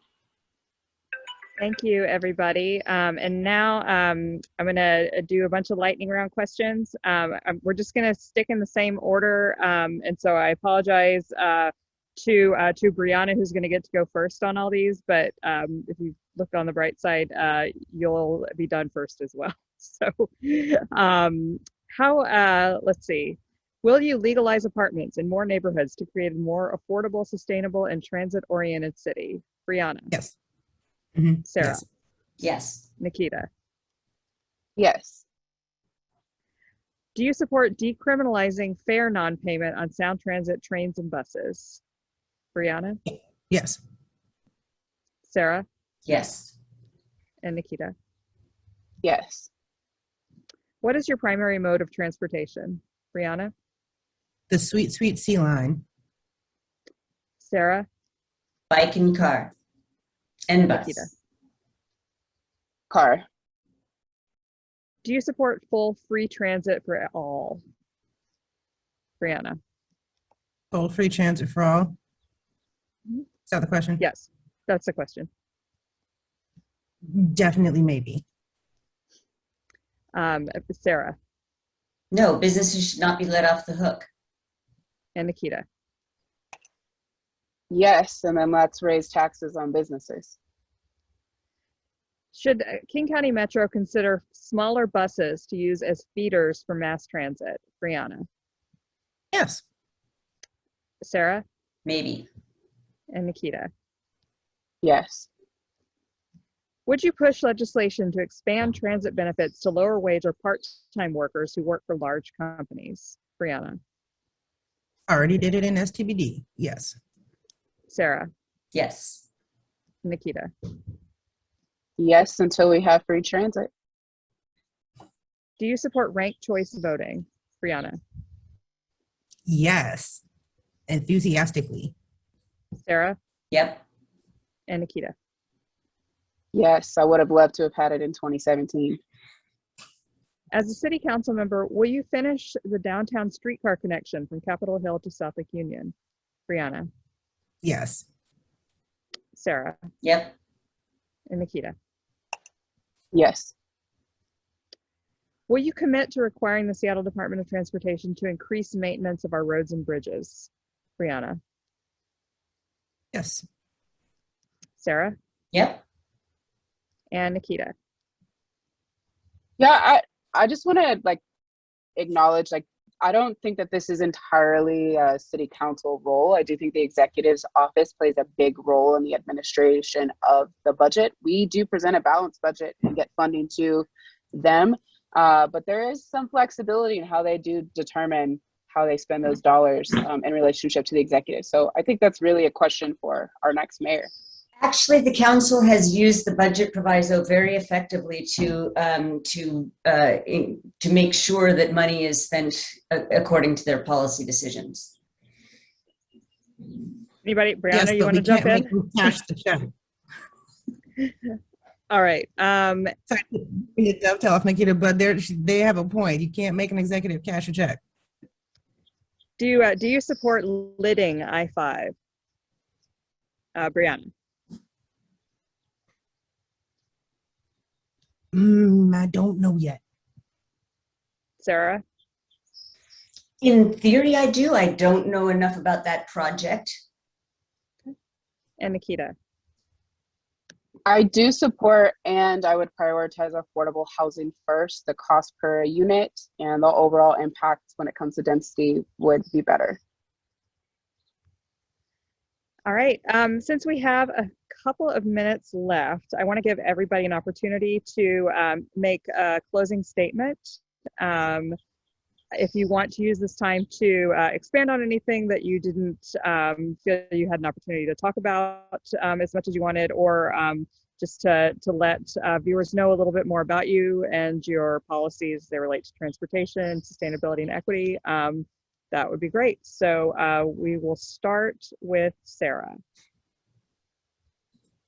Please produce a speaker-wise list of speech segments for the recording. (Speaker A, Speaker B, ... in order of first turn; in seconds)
Speaker A: 1.6-30.1, 31.5-31.8, 33.0-33.5, 37.1-41.8, 42.5-43.0, 45.2-45.6, 47.4-47.9, 50.8-53.5, 57.4-57.9, 60.6-61.1, 65.0-67.6, 69.2-69.6, 74.0-75.3, 80.2-81.2, 85.2-85.7, 92.3-98.2, 101.0-101.4, 103.1-103.7, 106.9-113.8, 117.9-118.3, 120.0-120.5, 125.6-128.0, 132.8-133.2, 134.7-135.2, 140.5-145.9, 146.5-146.9, 149.3-149.8, 151.3-151.8, 155.5-161.4, 164.8-165.2, 167.1-167.7, 207.2-208.7, 211.0-211.3, 211.9-212.9, 219.4-221.9, 223.6-224.1, 231.4-231.8, 238.6-239.2, 252.7-261.6, 262.4-282.8
Speaker B: 31.2-31.8, 43.5-43.8, 54.5-55.8, 70.7-72.0, 73.5-74.0, 77.1-78.2, 99.3-99.6, 115.1-117.0, 129.5-130.2, 130.9-131.9, 147.6-148.0, 163.1-163.4, 207.7-209.7, 213.1-217.8, 228.3-229.8
Speaker C: 32.4-32.9, 46.1-46.5, 58.7-59.5, 60.5-61.1, 82.1-84.1, 101.8-102.3, 118.7-119.2, 133.5-133.8, 150.0-150.3, 165.5-165.8, 194.6-204.9, 233.4-236.8
Speaker D: 34.8-35.2, 49.0-49.5, 62.9-63.2, 87.7-90.4, 104.8-105.3, 122.0-123.7, 136.5-139.0, 153.1-153.5, 169.6-171.2, 172.0-194.1, 240.9-249.8